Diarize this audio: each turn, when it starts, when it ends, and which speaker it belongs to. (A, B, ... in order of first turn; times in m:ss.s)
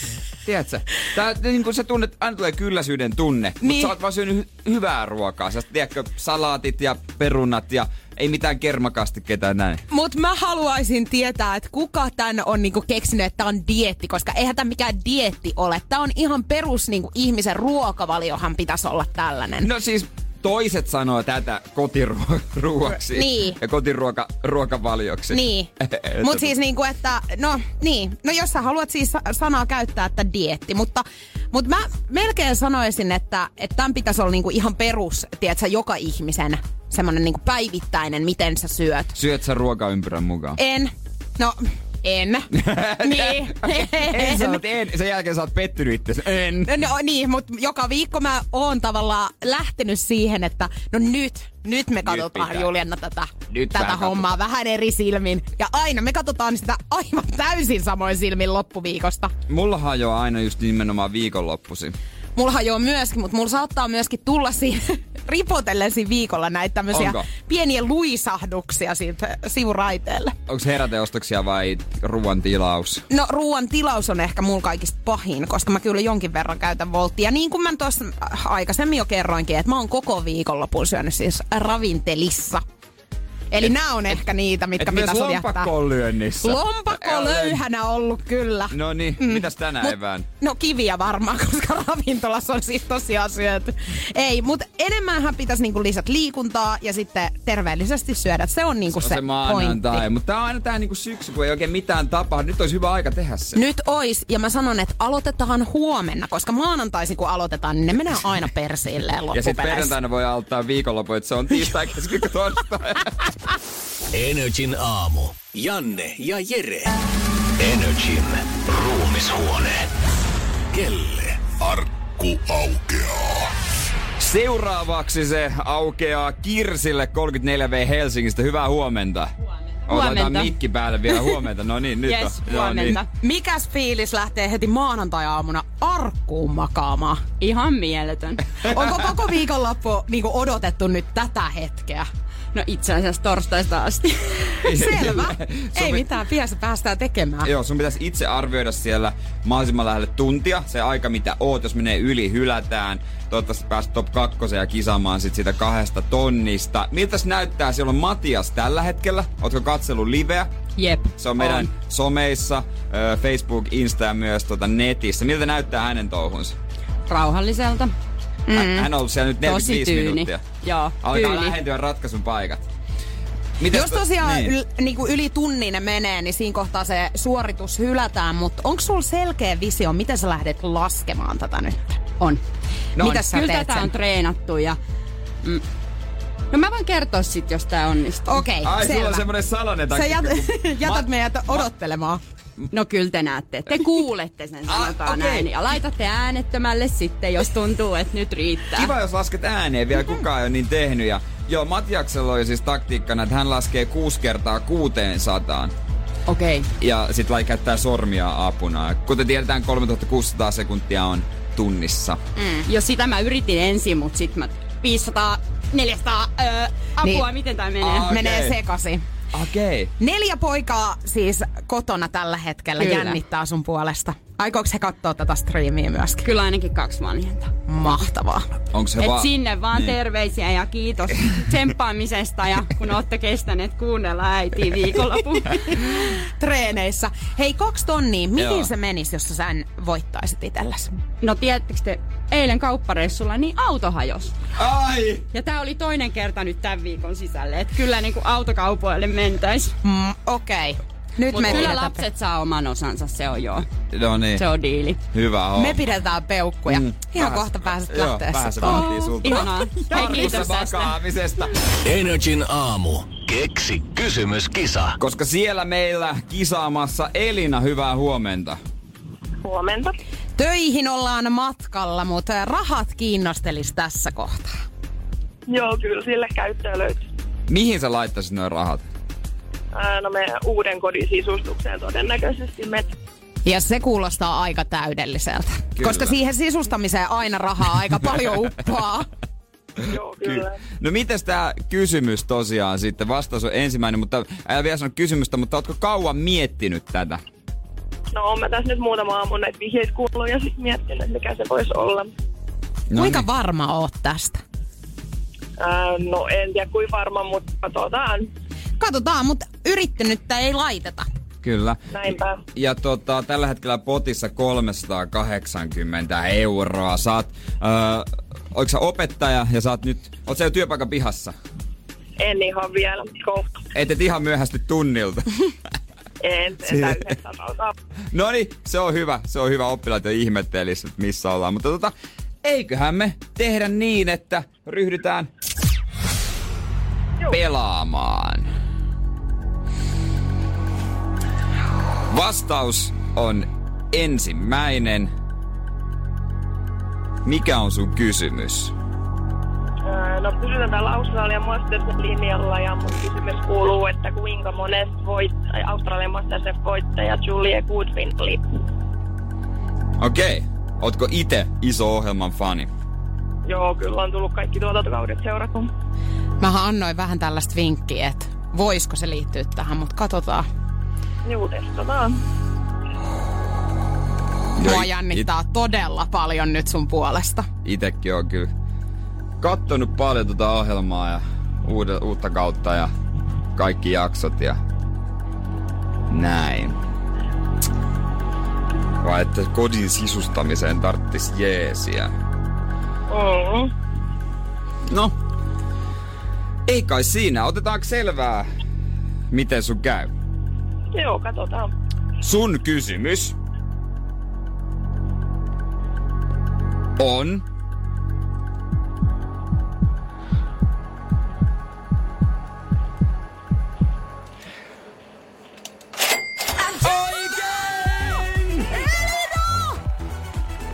0:00.4-0:09.8 A
0:03.6-0:03.9 B
0:09.9-0:19.7 B
0:19.6-0:26.5 A
0:23.1-0:23.6 B
0:25.3-0:39.2 B
0:39.2-0:40.6 A
0:40.6-0:44.6 B
0:42.5-0:46.7 A
0:46.7-0:59.3 B
0:52.1-0:52.7 A
0:53.5-0:54.4 A
0:59.5-1:02.0 A
1:02.4-1:10.4 B
1:06.9-1:07.3 A
1:10.5-1:13.0 A
1:13.1-1:22.6 B
1:23.5-1:25.7 B
1:24.8-1:27.6 A
1:26.4-1:40.0 B
1:28.7-1:30.3 A
1:38.9-1:43.6 A
1:43.6-1:49.9 B
1:49.3-1:53.2 A
1:54.1-1:56.9 C
1:57.6-1:59.9 C
2:00.7-2:03.4 C
2:04.2-2:09.3 A
2:09.9-2:10.6 D
2:09.9-2:13.0 A
2:11.1-2:11.4 D
2:12.0-2:13.1 D
2:13.2-2:17.2 B
2:17.4-2:18.4 D
2:18.6-2:22.1 B
2:22.5-2:24.6 D
2:24.6-2:27.5 B
2:24.6-2:26.1 A
2:27.4-2:40.5 A
2:40.8-2:41.7 D
2:41.2-2:46.6 A
2:47.1-2:47.9 D
2:48.5-2:48.9 B
2:48.5-2:50.4 A
2:49.4-2:51.6 D
2:51.0-2:52.6 A
2:53.6-2:54.5 A
2:53.7-3:02.1 B
3:03.0-3:03.2 A
3:03.0-3:03.9 B
3:03.1-3:04.8 D
3:06.5-3:08.4 D
3:08.3-3:09.3 B
3:08.6-3:11.7 A
3:09.9-3:12.2 B
3:12.7-3:18.9 D
3:14.7-3:15.5 A
3:18.7-3:25.7 A
3:26.3-3:26.7 D
3:26.8-3:32.2 A
3:32.4-3:32.7 B
3:32.7-3:38.2 D
3:37.0-3:37.3 B
3:37.8-3:38.6 A
3:38.0-3:39.0 B
3:39.3-3:39.9 A
3:40.0-3:46.3 B
3:42.8-3:43.2 D
3:46.2-3:47.5 D
3:47.7-3:48.5 B
3:48.7-3:50.0 A
3:49.0-3:55.8 D
3:55.7-4:01.0 B
3:58.4-3:58.7 A
4:01.2-4:04.4 D
4:04.6-4:05.2 A
4:05.3-4:09.8 D
4:09.8-4:12.0 B
4:11.3-4:13.7 D
4:13.9-4:14.5 A
4:14.4-4:15.0 D
4:15.1-4:15.8 A
4:15.6-4:20.4 B
4:16.7-4:21.6 A
4:18.6-4:21.0 D
4:21.8-4:25.0 C
4:25.0-4:28.6 A
4:29.4-4:30.0 E
4:30.4-4:34.5 B
4:35.5-4:37.0 E
4:37.5-4:38.8 A
4:39.7-4:42.9 E
4:43.5-4:49.1 B
4:45.8-4:46.2 A
4:49.8-4:50.6 E
4:50.2-4:57.2 A
4:58.1-5:02.1 E
5:02.9-5:03.3 A
5:02.9-5:04.4 B
5:05.6-5:08.3 E
5:08.8-5:11.1 B
5:11.4-5:12.0 A
5:11.9-5:12.4 E
5:12.6-5:21.4 A
5:22.2-5:23.6 E
5:23.7-5:25.4 A
5:26.2-5:27.7 E
5:26.7-5:27.2 A
5:28.1-5:31.9 A
5:32.4-5:35.3 A
5:37.3-5:38.5 A
5:42.1-5:45.1 A
5:47.2-5:48.7 A
5:49.9-5:58.4 E
6:00.0-6:02.7 A
6:03.5-6:05.7 E
6:06.4-6:10.5 B
6:11.2-6:12.2 E
6:14.6-6:15.2 A
6:14.6-6:17.5 B
6:17.6-6:18.5 A
6:19.4-6:22.9 A
6:23.6-6:24.6 A
6:26.1-6:26.8 A
6:29.0-6:32.1 A
6:33.1-6:33.7 E
6:34.9-6:35.2 A
6:36.7-6:38.5 A
6:39.3-6:40.1 A
6:40.9-6:41.7 E
6:42.2-6:43.4 A
6:47.0-6:47.4 A
6:56.8-6:58.8 A
6:58.7-6:59.8 B